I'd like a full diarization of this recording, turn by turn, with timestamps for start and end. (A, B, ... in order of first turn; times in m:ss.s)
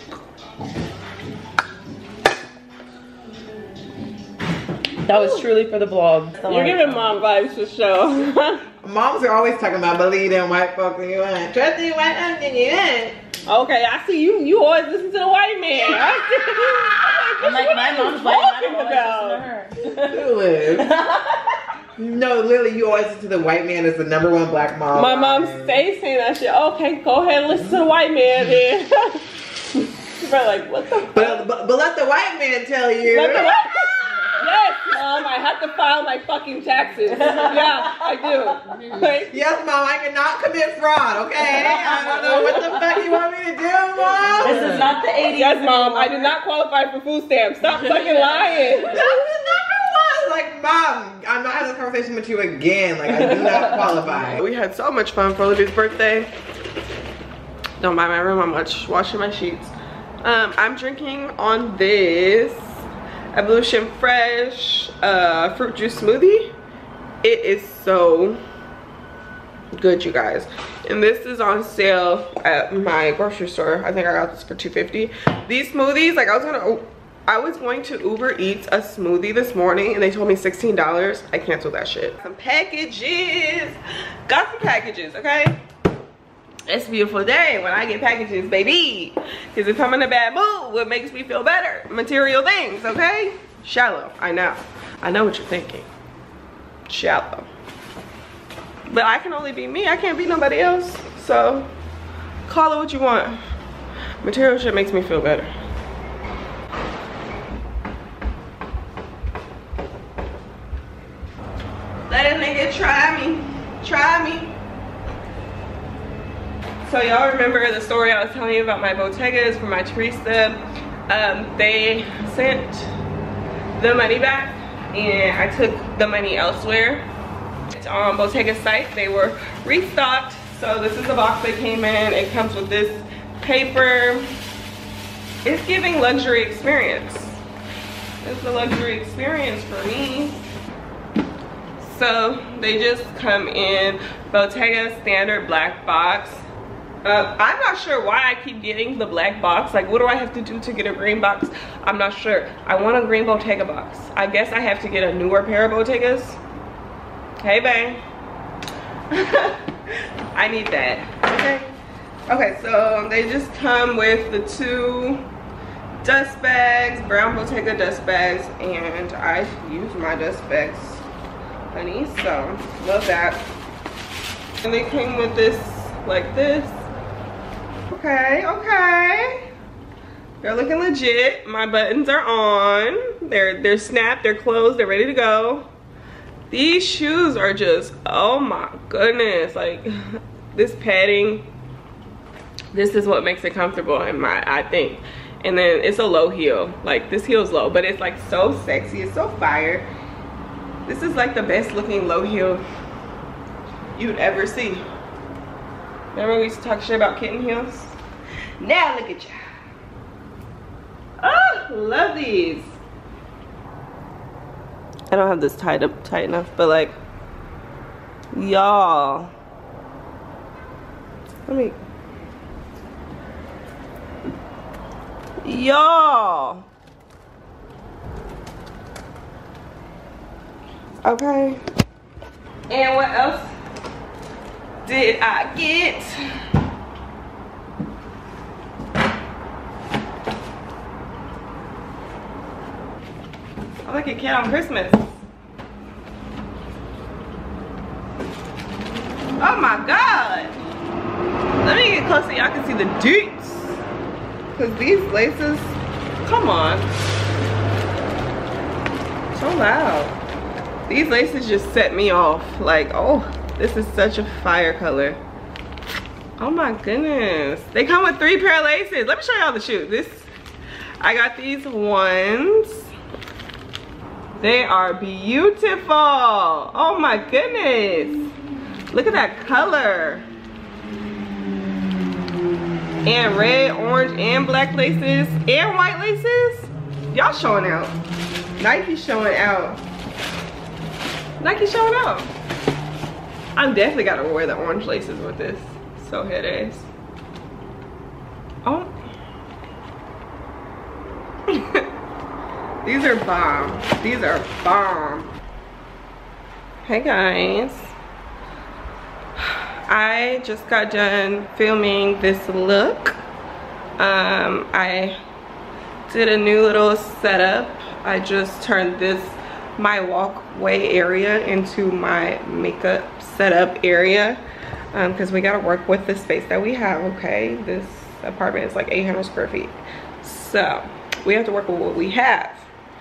0:05.0-0:07.1 A
0:05.1-0:05.4 B
0:06.4-0:08.6 B
0:08.8-0:13.2 C
0:13.5-0:19.5 B
0:17.4-0:20.2 A
0:20.0-0:21.0 C
0:20.7-0:21.4 A
0:22.0-0:25.7 C
0:24.9-0:29.2 B
0:29.7-0:31.4 B
0:31.1-0:34.4 C
0:33.0-0:39.4 B
0:37.2-0:37.9 A
0:39.2-0:44.9 C
0:44.4-0:46.3 A
0:45.3-0:49.0 B
0:48.9-0:54.4 C
0:53.1-0:56.3 B
0:57.8-1:06.5 B
1:07.2-1:08.4 B
1:09.7-1:25.6 B
1:26.7-1:35.9 B
1:36.9-1:37.5 B
1:38.9-1:41.7 B
1:42.5-1:43.4 B
1:44.2-1:45.5 B
1:52.1-1:54.5 B
1:56.8-2:02.9 B
2:03.8-2:07.0 B
2:07.7-2:14.3 B
2:15.4-2:17.4 B
2:18.2-2:20.4 B
2:21.8-2:26.4 B
2:27.0-2:36.4 B
2:37.4-2:38.0 B
2:39.1-2:41.7 B
2:42.3-2:45.2 B
2:46.0-2:51.0 B
2:51.7-2:53.5 B
2:54.6-2:56.8 B
2:57.9-2:59.4 B
3:00.4-3:05.7 B
3:06.5-3:11.5 B
3:12.7-3:19.9 B
3:20.8-3:22.6 B
3:24.0-3:24.8 B
3:26.1-3:28.0 B
3:28.6-3:29.4 B
3:31.2-3:32.7 B
3:35.1-3:36.9 B
3:38.3-3:39.3 B
3:41.5-3:41.8 B
3:45.4-3:46.6 B
3:51.0-3:51.6 B
3:52.7-3:53.5 B
3:54.8-3:56.2 B
4:03.8-4:05.0 B
4:09.4-4:10.6 B
4:11.6-4:13.8 B
4:14.5-4:16.9 B
4:19.3-4:20.1 B
4:20.9-4:25.2 B
4:26.4-4:30.3 B
4:31.0-4:32.8 B
4:34.4-4:38.3 B
4:38.9-4:40.2 B
4:43.0-4:47.9 B
4:48.6-4:49.8 B
4:51.4-4:52.3 B
4:53.6-4:56.9 B
4:58.6-4:58.9 B
5:01.5-5:01.8 B
5:02.8-5:05.3 B
5:06.8-5:07.9 B
5:09.4-5:13.2 B
5:14.0-5:15.2 B
5:16.1-5:24.4 B
5:24.9-5:32.7 B